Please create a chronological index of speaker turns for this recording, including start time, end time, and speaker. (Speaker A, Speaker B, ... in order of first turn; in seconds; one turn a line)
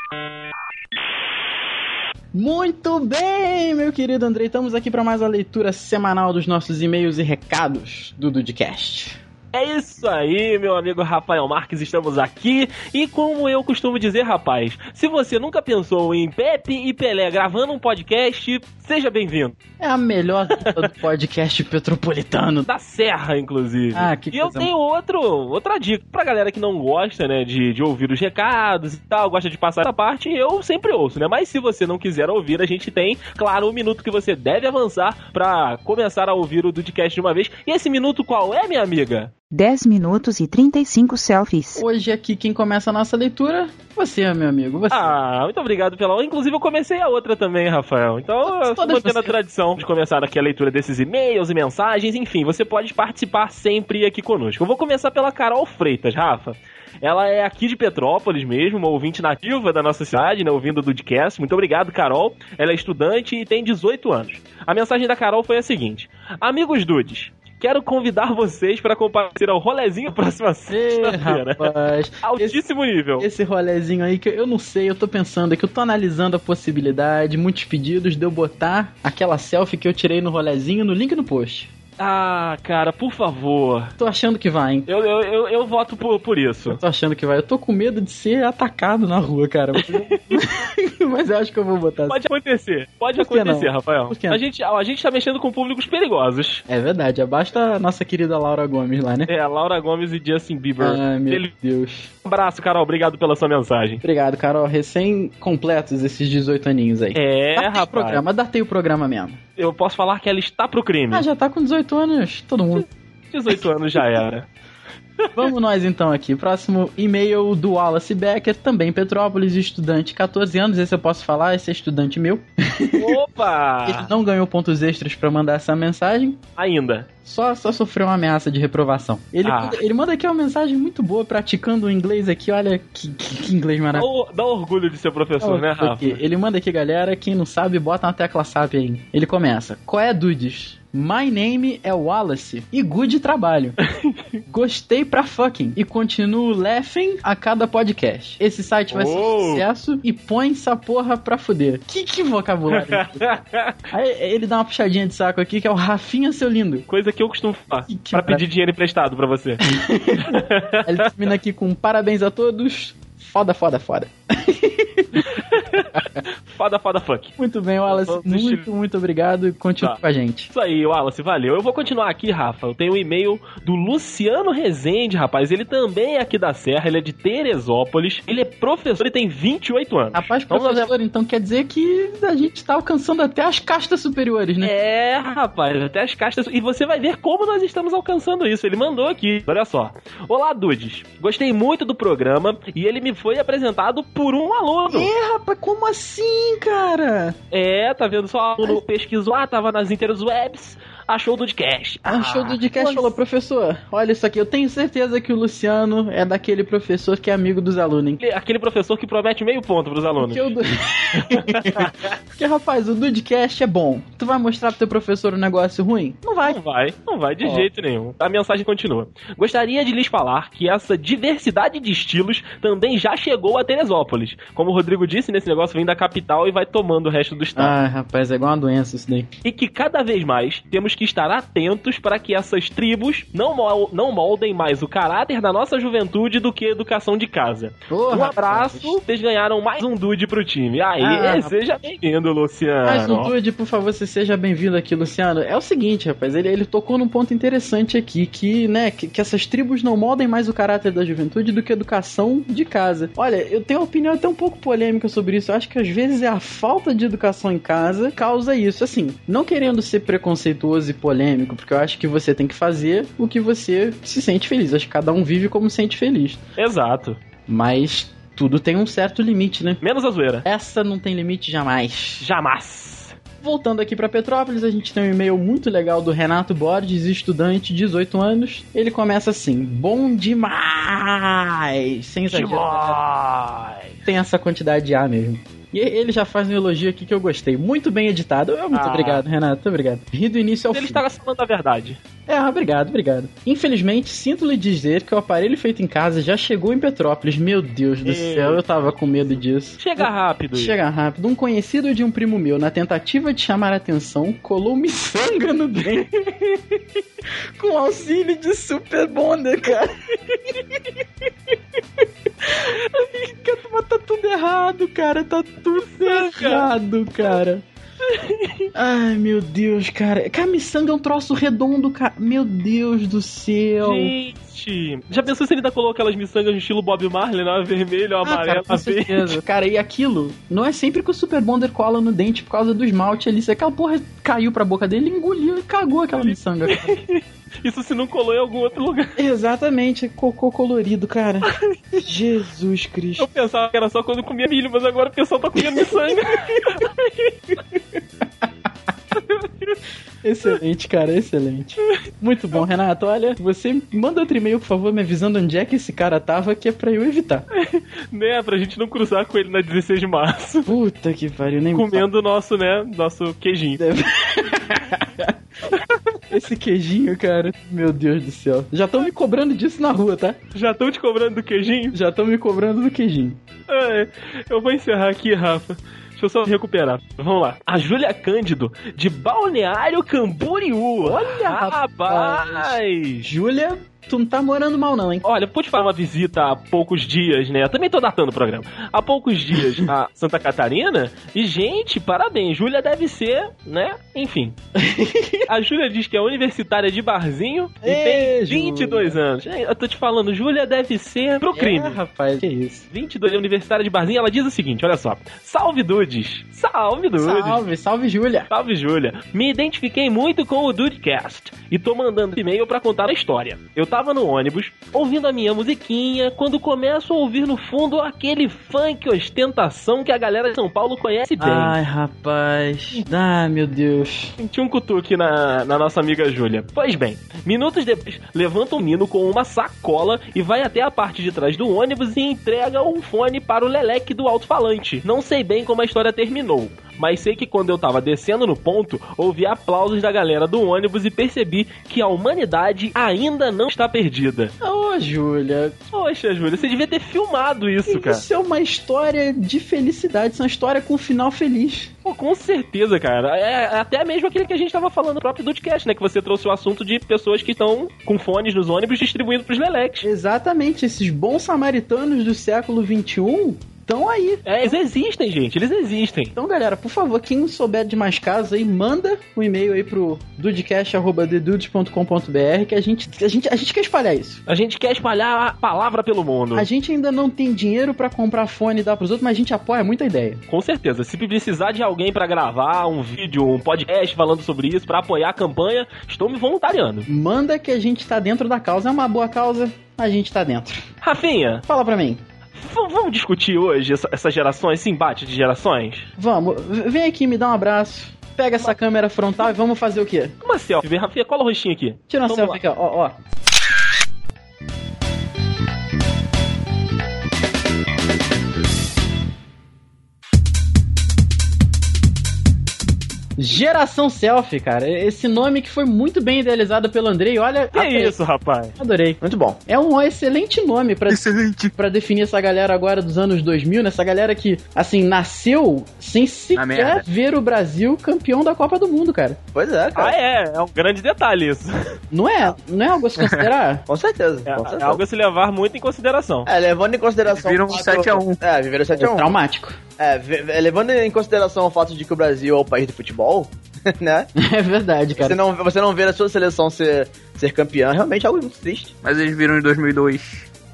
Speaker A: 2.3-9.2
Speaker B: 9.5-19.6
Speaker A: 19.8-22.7
Speaker B: 22.7-39.3
Speaker A: 23.9-24.7
Speaker C: 39.5-41.8
Speaker A: 41.8-45.2
Speaker B: 44.9-71.7
Speaker A: 48.5-49.3
Speaker A: 70.7-72.6
Speaker B: 72.2-73.3
Speaker A: 73.2-81.7
Speaker B: 82.0-83.9
Speaker A: 84.0-84.9
Speaker B: 84.9-86.8
Speaker A: 86.7-92.2
Speaker B: 89.8-90.5
Speaker B: 92.1-96.6
Speaker A: 93.2-94.4
Speaker A: 96.7-99.3
Speaker B: 99.3-101.5
Speaker A: 100.8-102.1
Speaker B: 102.2-104.0
Speaker A: 104.0-109.4
Speaker B: 107.2-108.2
Speaker B: 109.6-111.3
Speaker A: 111.1-112.9
Speaker B: 113.3-114.5
Speaker B: 115.2-115.5
Speaker A: 115.3-123.2
Speaker B: 123.0-124.1
Speaker A: 123.8-126.4
Speaker B: 126.6-127.1
Speaker A: 127.2-134.1
Speaker B: 129.4-129.8
Speaker B: 133.9-136.2
Speaker A: 135.4-143.8
Speaker A: 144.5-153.3
Speaker B: 148.9-149.7
Speaker B: 152.7-153.7
Speaker A: 153.9-156.8
Speaker B: 156.9-159.6
Speaker A: 157.9-158.4
Speaker A: 159.6-165.2
Speaker B: 160.2-160.8
Speaker B: 165.2-167.3
Speaker A: 167.4-170.5
Speaker B: 167.9-168.7
Speaker B: 170.5-180.9
Speaker A: 180.1-184.7
Speaker B: 184.6-195.1
Speaker A: 194.9-197.4
Speaker B: 197.5-203.1
Speaker A: 202.1-208.2
Speaker B: 208.2-210.5
Speaker A: 210.2-216.6
Speaker B: 211.3-211.9
Speaker B: 216.4-227.8
Speaker A: 227.6-229.3
Speaker B: 229.4-243.3
Speaker A: 237.9-239.0
Speaker A: 241.0-241.5
Speaker A: 242.8-266.4
Speaker B: 266.6-267.2
Speaker A: 267.5-269.8
Speaker B: 269.8-270.4
Speaker A: 270.4-272.2
Speaker B: 272.2-273.2
Speaker A: 273.4-283.0
Speaker B: 282.3-284.0
Speaker A: 284.1-291.0
Speaker B: 288.7-289.2
Speaker B: 290.7-292.0
Speaker A: 292.3-306.8
Speaker B: 298.1-300.8
Speaker A: 307.6-310.8
Speaker A: 312.4-317.6
Speaker B: 316.0-316.7
Speaker B: 318.1-318.7
Speaker A: 318.7-324.1
Speaker B: 323.8-329.4
Speaker A: 328.2-337.0
Speaker B: 336.7-339.2
Speaker A: 339.2-343.3
Speaker B: 341.5-341.8
Speaker B: 343.2-347.6
Speaker A: 345.7-346.9
Speaker B: 349.3-349.7
Speaker A: 350.2-357.5
Speaker B: 357.6-360.7
Speaker A: 360.7-362.1
Speaker B: 361.8-363.8
Speaker A: 363.8-365.3
Speaker A: 366.3-370.4
Speaker B: 370.5-372.0
Speaker A: 371.9-373.4
Speaker B: 373.7-383.3
Speaker A: 381.0-385.2
Speaker B: 385.2-394.6
Speaker A: 394.8-395.5
Speaker B: 395.5-402.0
Speaker A: 397.8-399.2
Speaker A: 401.5-402.9
Speaker B: 402.9-407.6
Speaker A: 407.2-408.5
Speaker B: 408.5-421.8
Speaker A: 421.4-424.3
Speaker B: 424.4-444.5
Speaker A: 444.6-445.8
Speaker B: 445.9-448.2
Speaker A: 447.9-451.9
Speaker B: 452.1-460.1
Speaker A: 460.0-464.8
Speaker B: 464.5-466.3
Speaker A: 466.4-474.4
Speaker B: 474.5-476.7
Speaker A: 476.5-480.4
Speaker B: 480.5-487.1
Speaker A: 487.1-490.9
Speaker B: 491.0-491.6
Speaker A: 491.7-492.2
Speaker B: 492.6-496.1
Speaker A: 496.2-500.4
Speaker B: 500.4-502.6
Speaker A: 502.1-503.2
Speaker A: 513.4-518.2
Speaker B: 517.8-518.8
Speaker A: 518.8-529.4
Speaker D: 519.2-519.6
Speaker E: 521.1-521.7
Speaker E: 526.5-527.0
Speaker D: 529.5-530.1
Speaker B: 530.0-531.9
Speaker A: 532.1-533.8
Speaker E: 533.2-533.5
Speaker D: 533.9-535.0
Speaker B: 534.5-536.5
Speaker D: 536.5-539.3
Speaker E: 537.3-538.4
Speaker A: 539.0-539.8
Speaker D: 540.0-544.3
Speaker A: 544.4-545.4
Speaker D: 545.1-548.9
Speaker E: 549.0-550.5